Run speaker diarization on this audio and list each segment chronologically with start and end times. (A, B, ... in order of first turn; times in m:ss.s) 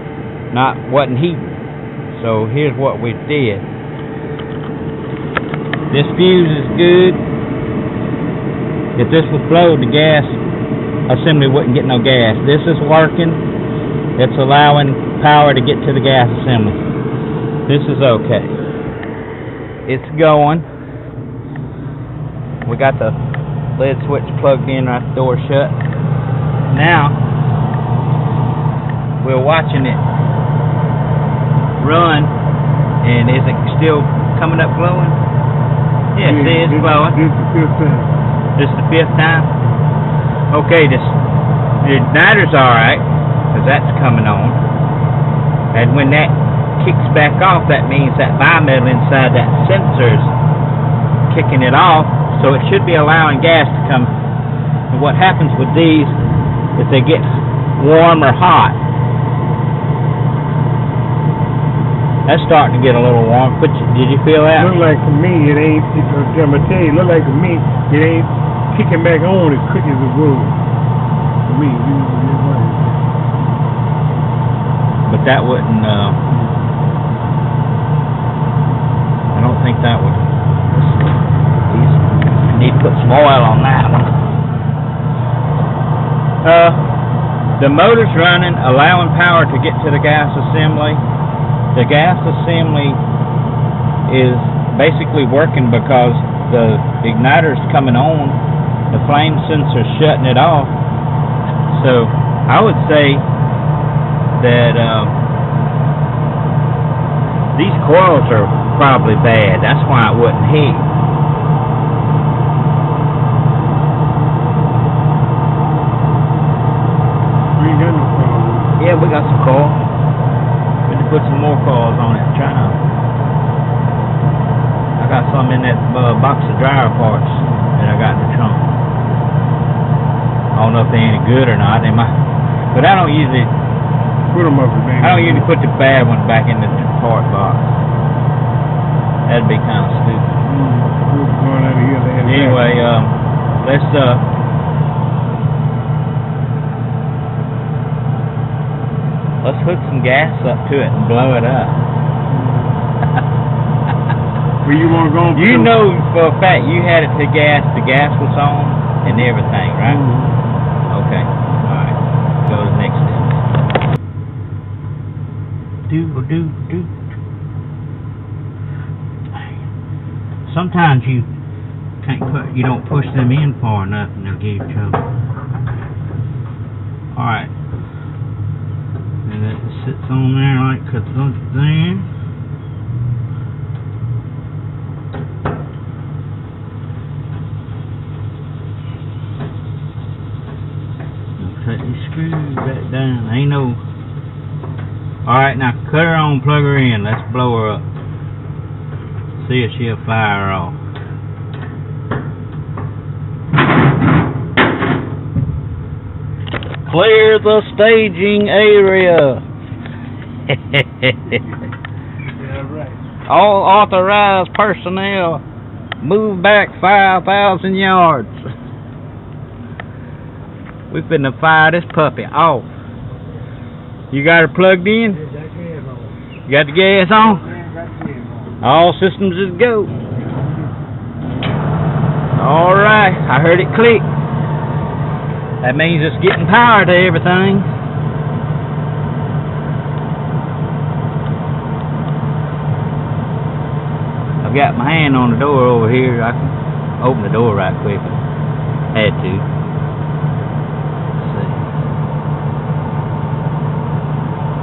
0:00.5-0:01.5 A
0:02.1-0:03.6 A
0:05.9-0:07.2 A
0:09.0-0:10.4 A
0:11.1-0:13.4 A
0:14.2-0:16.8 A
0:17.7-0:18.6 A
0:19.9-0:20.6 A
0:22.6-0:23.2 A
0:23.7-0:25.8 A
0:26.7-0:27.2 A
0:29.2-0:30.0 A
0:31.8-0:32.3 A
0:33.0-0:35.2 A
0:36.1-0:37.2 A
0:36.2-0:38.1 B
0:38.6-0:39.5 A
0:40.5-0:41.2 A
0:41.8-0:44.6 A
0:45.7-0:50.3 A
0:51.3-0:54.1 A
0:54.9-0:56.2 A
0:56.8-0:58.8 A
1:02.3-1:04.7 A
1:04.6-1:10.6 B
1:11.4-1:13.0 B
1:15.1-1:16.2 A
1:19.3-1:21.0 A
1:21.7-1:24.1 A
1:26.4-1:26.8 A
1:27.6-1:31.0 A
1:31.7-1:33.0 A
1:34.1-1:38.4 A
1:38.9-1:40.7 A
1:41.7-1:43.2 A
1:44.4-1:45.1 A
1:47.5-1:50.9 A
1:57.5-1:58.7 B
1:58.8-1:59.8 A
2:00.9-2:02.8 A
2:05.0-2:08.8 A
2:10.5-2:12.1 A
2:12.7-2:13.5 A
2:14.3-2:15.5 B
2:15.0-2:17.7 A
2:19.3-2:20.4 A
2:20.4-2:22.6 B
2:22.2-2:24.2 A
2:29.4-2:31.8 A
2:32.3-2:32.8 B
2:34.6-2:35.7 B
2:35.3-2:40.0 A
2:39.8-2:40.3 B
2:40.9-2:43.4 A
2:45.9-2:46.9 A
2:50.4-2:51.3 A
2:52.0-2:55.0 A
2:57.1-2:57.5 A
2:59.2-3:02.1 A
3:11.4-3:13.8 A
3:15.2-3:17.8 A
3:19.4-3:20.8 A
3:26.8-3:29.4 A
3:30.5-3:31.4 A
3:32.4-3:33.0 B
3:33.3-3:35.4 A
3:36.0-3:38.4 A
3:40.9-3:42.7 A
3:44.1-3:45.2 A
3:46.5-3:47.5 A
3:48.6-3:49.9 A
3:52.4-3:54.0 A
3:55.6-3:57.7 A
4:04.4-4:08.2 A
4:08.9-4:09.4 A
4:11.2-4:11.6 A